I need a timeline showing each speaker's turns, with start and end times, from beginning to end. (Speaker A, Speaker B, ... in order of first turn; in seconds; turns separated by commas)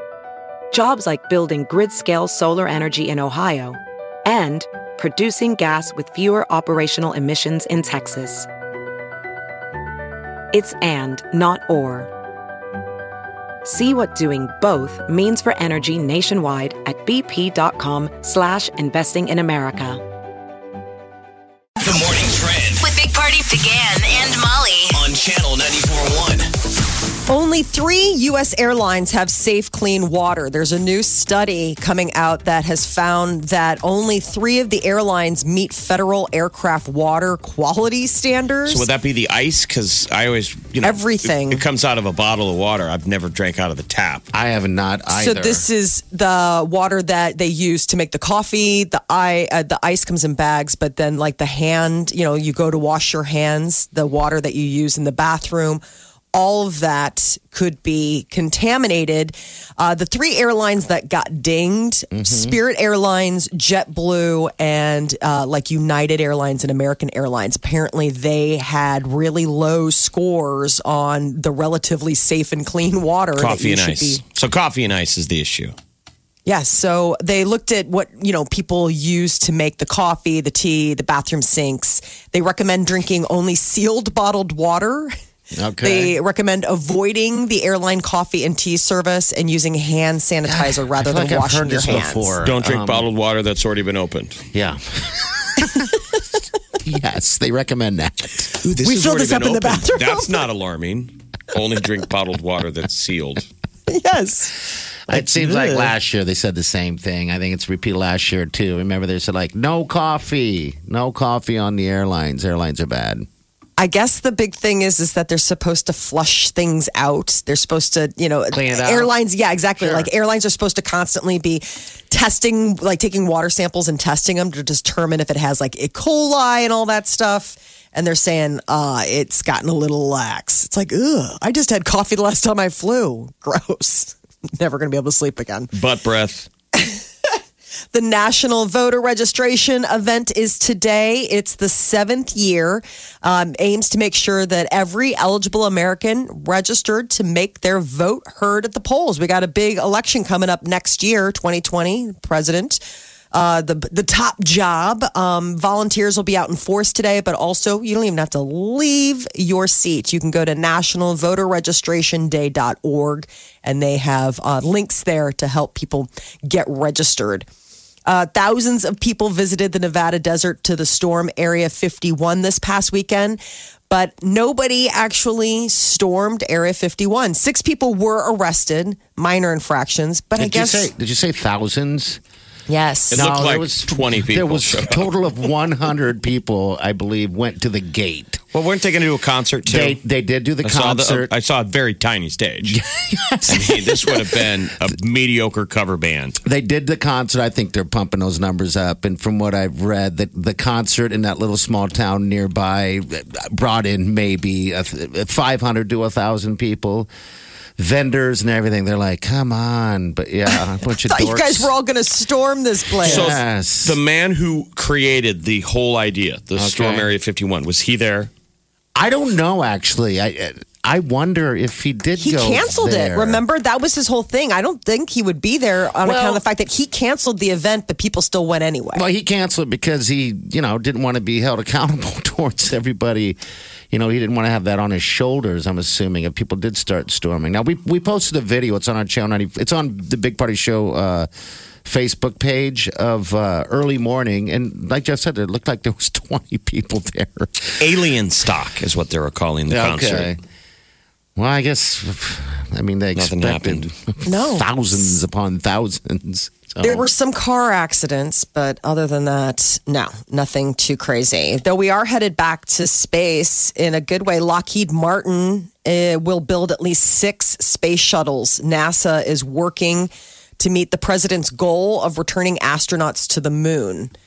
Speaker A: 0.7-8.5, Speaker A: 10.5-12.1, Speaker A: 13.7-20.0, Speaker B: 21.8-22.9, Speaker C: 22.8-25.0, Speaker B: 24.9-26.5, Speaker D: 27.3-38.9, Speaker E: 38.7-44.3, Speaker D: 40.8-41.6, Speaker F: 44.3-45.7, Speaker D: 45.1-74.2, Speaker F: 62.1-62.6, Speaker E: 73.4-75.7, Speaker D: 76.5-85.1, Speaker F: 85.6-86.2, Speaker D: 85.8-92.4, Speaker F: 90.5-93.1, Speaker E: 92.4-94.4, Speaker F: 94.5-96.1, Speaker F: 96.8-98.5, Speaker E: 98.5-103.5, Speaker D: 98.8-100.5, Speaker D: 103.9-104.5, Speaker F: 105.1-113.3, Speaker E: 105.1-106.0, Speaker D: 113.8-135.7, Speaker F: 118.5-119.1, Speaker F: 119.8-120.1, Speaker E: 135.7-136.5, Speaker D: 137.9-167.5, Speaker D: 168.1-180.9, Speaker F: 180.4-182.2, Speaker D: 182.7-183.3, Speaker F: 183.1-188.4, Speaker E: 183.1-185.1, Speaker E: 188.5-190.0, Speaker F: 189.7-191.3, Speaker E: 190.6-192.8, Speaker F: 192.7-194.3, Speaker E: 193.5-196.4, Speaker F: 196.4-207.1, Speaker F: 207.8-211.7, Speaker D: 210.5-213.4, Speaker F: 213.0-214.0, Speaker E: 213.0-218.3, Speaker F: 216.6-217.1, Speaker F: 218.9-223.4, Speaker D: 222.2-229.1, Speaker F: 226.0-226.4, Speaker F: 228.9-233.4, Speaker F: 233.9-241.3, Speaker F: 241.8-248.0, Speaker E: 247.8-250.3, Speaker F: 249.7-250.4, Speaker F: 251.4-257.1, Speaker E: 253.2-253.9, Speaker D: 254.2-254.7, Speaker D: 256.8-274.1